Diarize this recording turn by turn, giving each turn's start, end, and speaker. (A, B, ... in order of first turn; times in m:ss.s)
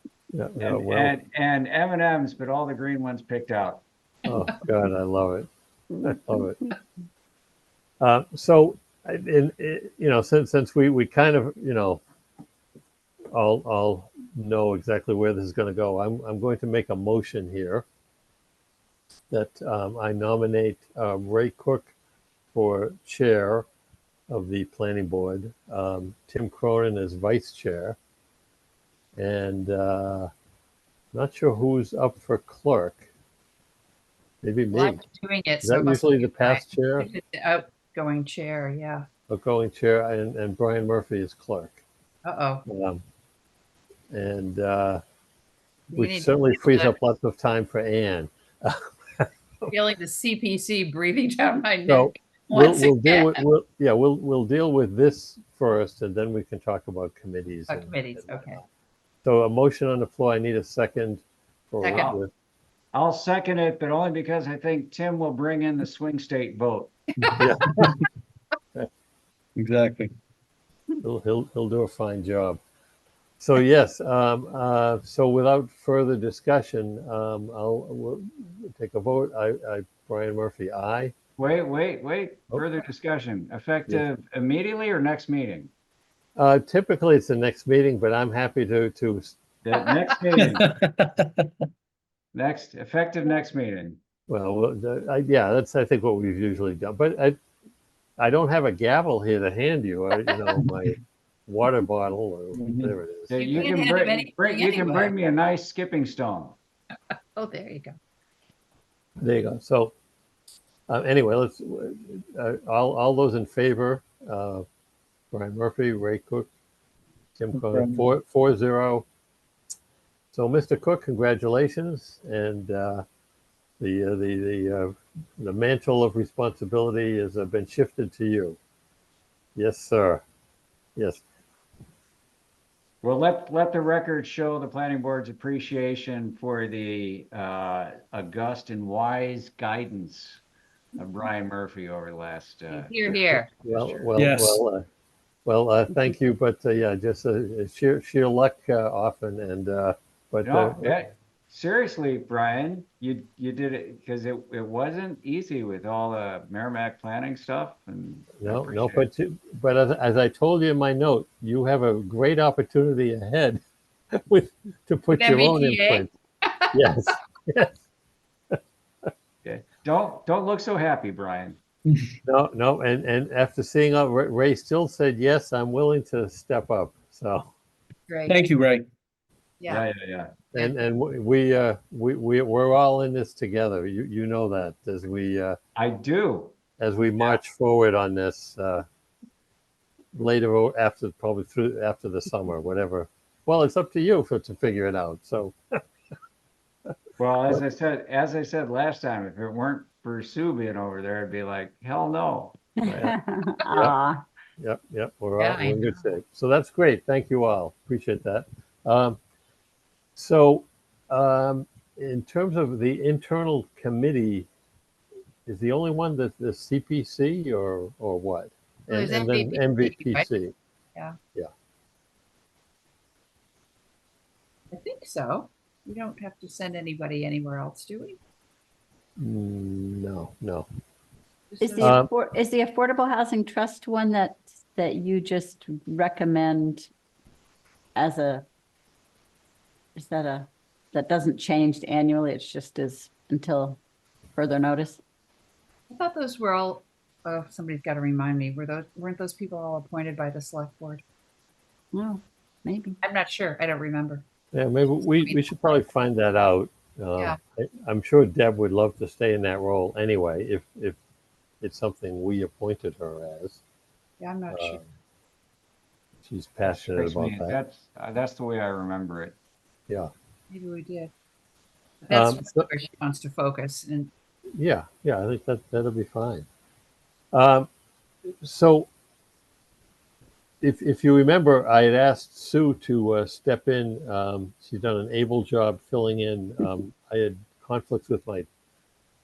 0:00.3-0:01.1 A
0:00.6-0:03.8 B
0:04.2-0:05.5 A
0:06.0-0:06.6 A
0:08.0-0:12.0 A
0:13.3-0:17.8 A
0:19.3-0:21.9 A
0:22.5-0:23.6 A
0:24.3-0:28.0 A
0:29.2-0:30.3 A
0:31.1-0:33.0 A
0:34.4-0:35.0 A
0:34.7-0:39.0 C
0:35.6-0:37.1 A
0:39.3-0:41.8 A
0:42.2-0:42.6 C
0:42.7-0:43.0 A
0:44.1-0:45.0 A
0:45.9-0:46.9 C
0:45.9-0:49.7 A
0:49.6-0:53.4 C
0:51.8-0:58.6 A
0:57.7-0:58.6 C
0:59.2-1:02.3 A
1:01.8-1:02.1 C
1:01.8-1:02.2 B
1:02.9-1:06.9 B
1:07.4-1:07.9 A
1:09.6-1:10.1 D
1:11.0-1:12.6 A
1:13.4-1:21.1 A
1:21.4-1:25.7 B
1:26.4-1:29.4 A
1:29.6-1:30.7 B
1:30.3-1:31.5 D
1:32.3-1:34.0 B
1:34.3-1:37.4 A
1:38.2-1:43.7 A
1:42.5-1:46.6 B
1:43.3-1:45.1 C
1:47.1-1:48.0 C
1:49.2-1:49.9 A
1:50.9-1:54.6 A
1:55.3-1:56.5 A
1:57.4-1:59.0 A
1:57.5-1:58.1 D
2:00.3-2:03.0 A
2:03.8-2:08.6 A
2:09.5-2:10.2 A
2:11.0-2:11.2 A
2:13.0-2:20.4 B
2:21.0-2:24.2 B
2:22.7-2:23.5 C
2:23.6-2:24.8 A
2:24.2-2:24.6 D
2:25.4-2:31.0 A
2:30.4-2:39.1 B
2:38.4-2:43.6 A
2:44.2-2:46.1 A
2:45.1-2:46.7 C
2:46.7-2:47.8 A
2:49.4-2:51.6 B
2:52.2-2:57.5 A
2:58.1-2:58.4 C
2:58.3-2:58.9 D
2:59.6-2:59.8 C
2:59.7-3:00.3 B
3:00.5-3:05.6 A
3:00.6-3:00.8 C
3:05.8-3:06.5 B
3:06.8-3:08.8 A
3:10.1-3:15.6 A
3:17.2-3:23.0 B
3:22.8-3:23.1 A
3:22.9-3:24.2 E
3:24.6-3:29.2 A
3:25.4-3:26.1 C
3:30.2-3:34.5 A
3:35.4-3:40.5 A
3:38.9-3:40.3 C
3:44.7-3:48.2 C
3:49.2-3:50.6 A
3:51.5-3:52.0 C
3:51.6-3:56.9 E
3:51.8-3:52.1 A
3:58.0-3:58.4 E
4:00.0-4:03.8 E
4:04.3-4:05.0 E
4:05.9-4:11.0 C
4:11.9-4:13.0 E
4:13.0-4:14.2 C
4:14.5-4:21.0 A
4:15.2-4:15.5 C
4:21.6-4:23.6 A
4:24.2-4:24.8 C
4:24.5-4:24.8 A
4:26.2-4:27.6 A
4:26.6-4:29.4 B
4:30.5-4:31.1 C
4:32.0-4:34.1 C
4:32.1-4:32.7 A
4:34.6-4:36.4 A
4:37.3-4:37.7 A
4:38.4-4:38.9 A
4:40.6-4:48.5 A